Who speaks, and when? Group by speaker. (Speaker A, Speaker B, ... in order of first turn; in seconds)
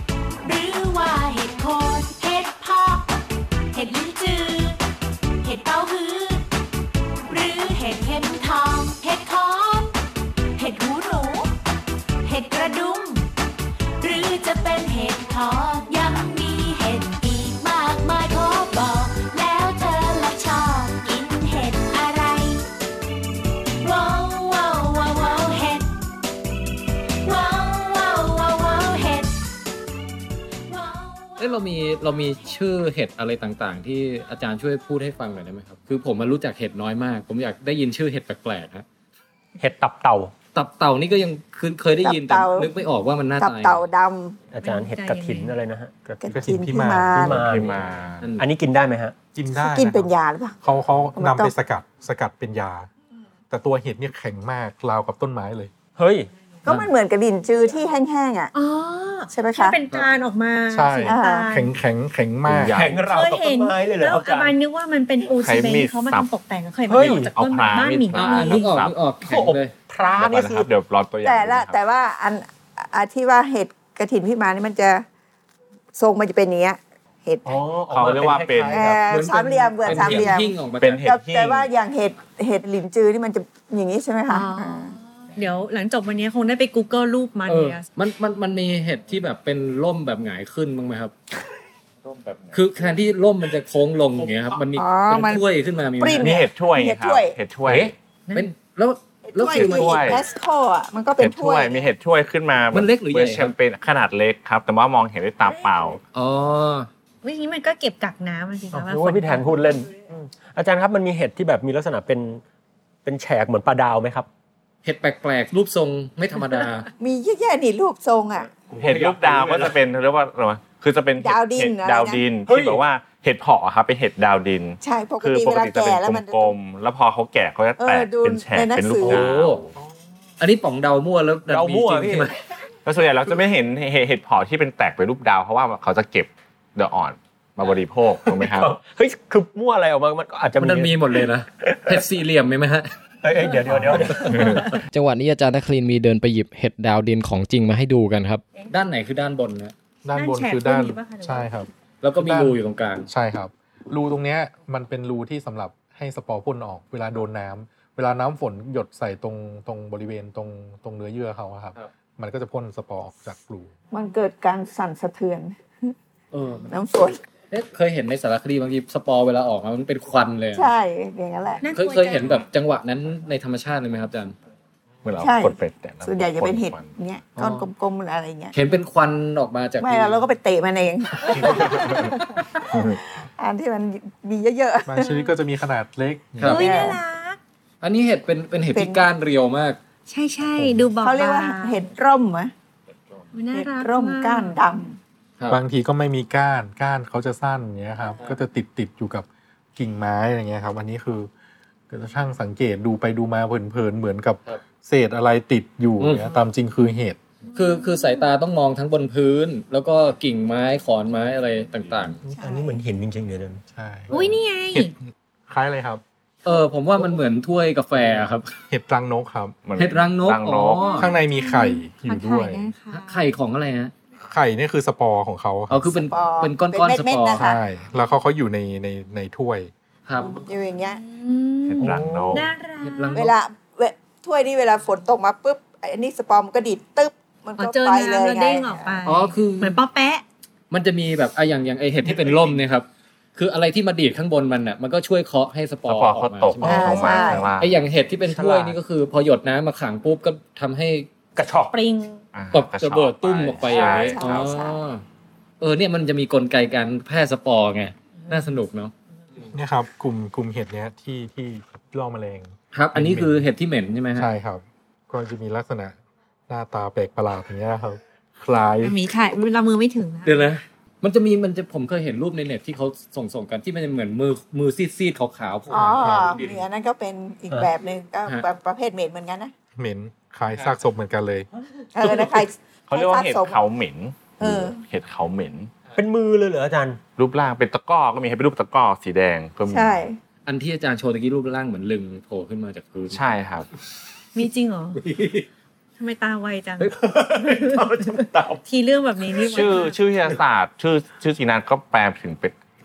Speaker A: 0.4-3.2, 3.7-4.8, 5.4-6.5, 7.2-9.9, 10.6-11.5, 12.2-13.3, 14.0-22.6, 23.8-25.9, 27.2-29.4, 30.7-31.7
Speaker B: 31.4-38.9, 40.5-43.8, 68.1-69.7, 79.1-81.0, 87.5-91.1, 92.5-96.3, 97.7-100.2, 102.7-103.5, 106.1-106.9, 114.8-116.9, 129.0-129.6, 130.4-132.3, 140.6-142.9, 148.7-149.7, 152.0-153.1, 166.3-166.7, 167.5-170.7, 171.7-174.3, 177.4-177.7, 178.5-180.3, 187.8-189.8, 206.0-206.3, 207.6-212.2, 216.4-218.5, 219.8-221.1, 222.9-223.9, 225.7-227.5, 230.1-230.4, 232.8-233.3, 239.1-239.8, 240.7-251.1, 252.5-255.0, 255.6-258.9, 262.7-264.3, 270.2-276.6, 290.5-293.2
Speaker C: 39.6-40.3, 44.5-46.4, 47.1-47.8, 48.4-49.2, 56.0-56.3, 62.6-64.6, 66.9-67.3, 69.3-70.7, 77.5-80.3, 108.7-112.4, 113.0-114.3, 118.8-119.8, 122.5-122.8, 131.5-132.4, 138.3-142.1, 143.2-144.7, 212.2-213.6, 231.8-232.4, 242.1-242.6, 248.2-248.8, 251.4-251.8, 285.9-287.0, 295.0-295.4, 296.8-298.6
Speaker D: 42.0-42.7, 43.4-44.4, 46.2-47.5, 49.5-50.6, 51.2-51.5, 56.6-58.5, 59.3-59.8, 61.1-61.5, 71.2-75.0, 76.0-77.6, 78.7-85.0, 94.8-95.5, 96.0-97.4, 99.3-101.8, 105.5-106.0, 117.0-118.5, 121.2-122.3, 124.8-126.6, 127.8-129.3, 163.9-165.9, 166.7-167.2, 170.6-171.6, 175.2-178.5, 179.8-185.2, 186.4-187.0, 188.7-189.0, 191.0-192.5, 193.5-195.0, 226.0-227.6, 230.5-231.0, 233.1-239.0, 246.6-247.5, 253.7-254.8, 275.7-279.5, 281.9-283.6, 284.4-284.8, 289.7-290.2
Speaker E: 44.6-45.5, 58.5-61.7, 63.0-68.6, 84.3-87.9, 107.2-109.5, 150.2-151.5, 171.6-172.4, 186.4-187.4, 190.1-191.8, 193.3-194.6, 207.5-208.2, 212.3-212.8, 214.1-214.9, 220.8-223.2, 230.9-233.2, 237.6-240.2, 251.7-252.2, 268.8-270.5, 294.3-295.0, 296.0-300.0
Speaker F: 46.3-47.3, 49.4-50.1, 50.6-52.9, 53.5-55.7, 60.7-62.8, 150.0-163.7, 184.9-186.7, 190.6-190.9, 195.5-201.3, 201.9-207.2, 213.7-214.1, 214.7-216.0, 218.7-219.6, 221.0-222.7, 224.2-226.0, 227.4-229.7, 259.5-263.5, 264.2-266.0, 266.5-269.0, 279.8-281.5
Speaker G: 47.3-48.3, 62.5-63.0, 65.4-66.3, 67.0-69.1, 70.2-71.8, 77.9-79.1, 79.9-80.2, 80.8-81.7, 92.0-92.7, 96.2-97.9, 99.5-100.2, 101.2-106.0, 118.8-129.7, 132.8-138.7, 144.3-144.6, 175.0-177.0, 181.4-182.1, 182.7-183.0, 219.6-221.0, 231.7-232.5, 245.9-247.8, 252.3-254.5, 282.9-285.7, 287.2-290.1, 293.1-293.7, 299.4-302.6
Speaker H: 144.9-148.4